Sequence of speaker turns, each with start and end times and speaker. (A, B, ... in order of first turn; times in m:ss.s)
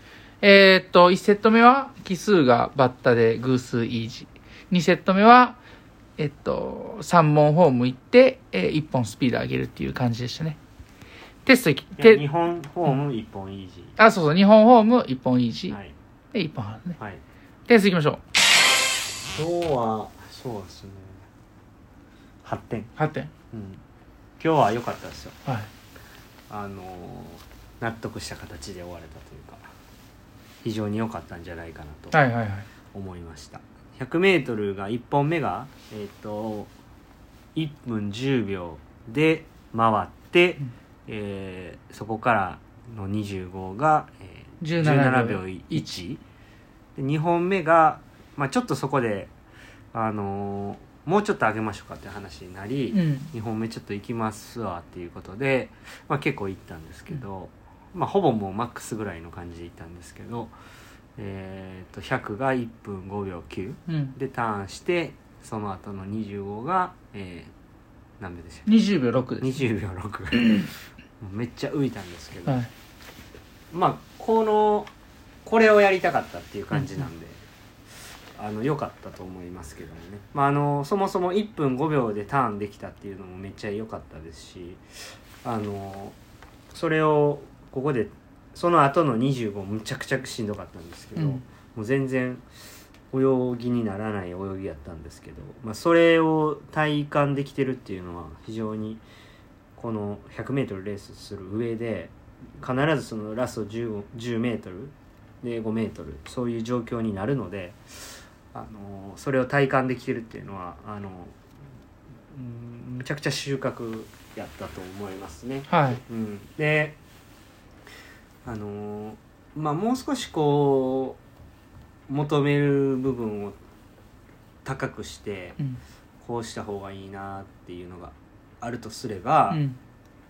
0:00.4-0:05.6 A
0:06.2-0:10.6 A
0:11.4-0:12.2 A
0:12.0-0:14.0 B
0:14.0-0:15.8 A
0:15.7-0:15.9 B
0:16.3-0:17.0 A
0:17.7-0:18.2 A
0:19.3-0:21.2 B
0:22.4-0:22.9 B
0:23.0-0:23.3 A
0:23.5-0:23.8 B
0:24.4-0:25.4 B
0:26.5-0:29.6 B
0:30.6-0:32.2 B
0:32.1-0:32.6 A
0:32.9-0:36.7 B
0:37.5-0:46.2 B
0:44.6-0:45.9 A
0:47.0-0:49.3 B
0:49.9-1:00.5 B
0:52.9-0:53.3 A
1:01.2-1:07.5 B
1:03.9-1:04.2 A
1:08.2-1:08.7 B
1:08.6-1:09.6 A
1:09.4-1:12.6 B
1:13.7-1:14.9 B
1:15.4-1:17.4 B
1:16.7-1:17.0 A
1:18.4-1:24.8 B
1:25.4-1:26.2 B
1:26.7-1:32.4 B
1:31.2-1:31.4 A
1:33.1-1:39.0 B
1:39.8-1:47.8 B
1:48.5-1:51.4 B
1:52.3-1:57.0 B
1:55.7-1:56.0 A
1:58.4-2:01.2 B
2:02.1-2:03.6 B
2:04.6-2:05.6 B
2:06.2-2:09.6 B
2:09.5-2:09.8 A